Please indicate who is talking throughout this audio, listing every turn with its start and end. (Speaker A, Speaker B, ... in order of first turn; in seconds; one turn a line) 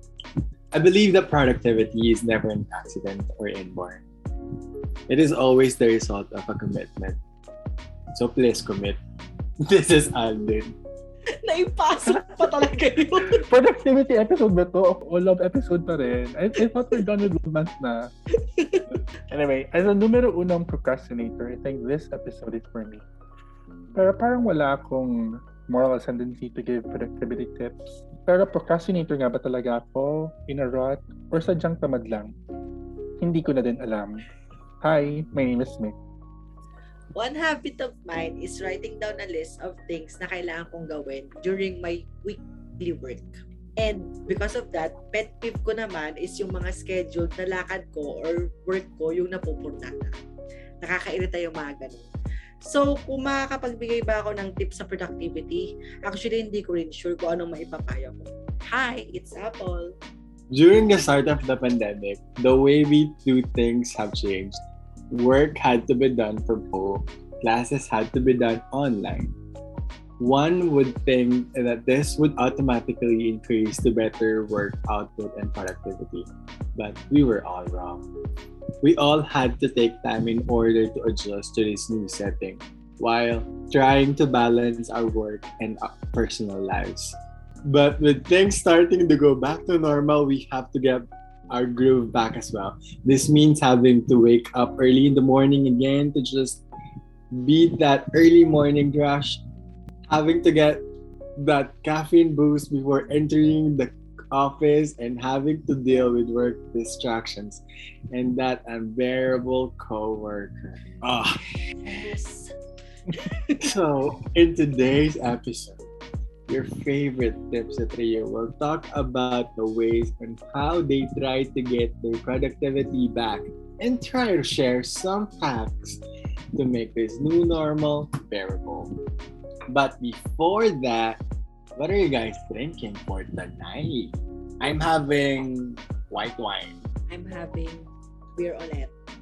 Speaker A: 0.7-4.0
Speaker A: 5.1-7.2
Speaker A: 8.1-9.0
Speaker A: 9.7-10.8
Speaker B: 11.4-13.4
Speaker C: 12.1-12.5
Speaker C: 13.3-18.1
Speaker B: 16.6-17.0
Speaker B: 18.5-18.8
Speaker C: 19.3-23.0
Speaker C: 23.9-32.3
Speaker C: 33.2-34.2
Speaker C: 34.8-35.9
Speaker B: 37.1-50.1
Speaker B: 50.8-52.1
Speaker B: 52.6-59.9
Speaker A: 60.5-64.6
Speaker A: 65.1-69.3
Speaker A: 70.2-78.1
Speaker A: 78.8-87.1
Speaker A: 87.7-96.6
Speaker A: 97.3-99.4
Speaker A: 100.1-100.8
Speaker A: 101.4-111.4
Speaker B: 111.8-112.5
Speaker B: 113.1-113.6
Speaker A: 113.6-115.8
Speaker A: 116.5-126.0
Speaker A: 126.5-128.9
Speaker A: 129.7-131.2
Speaker A: 131.8-136.8
Speaker B: 137.1-138.9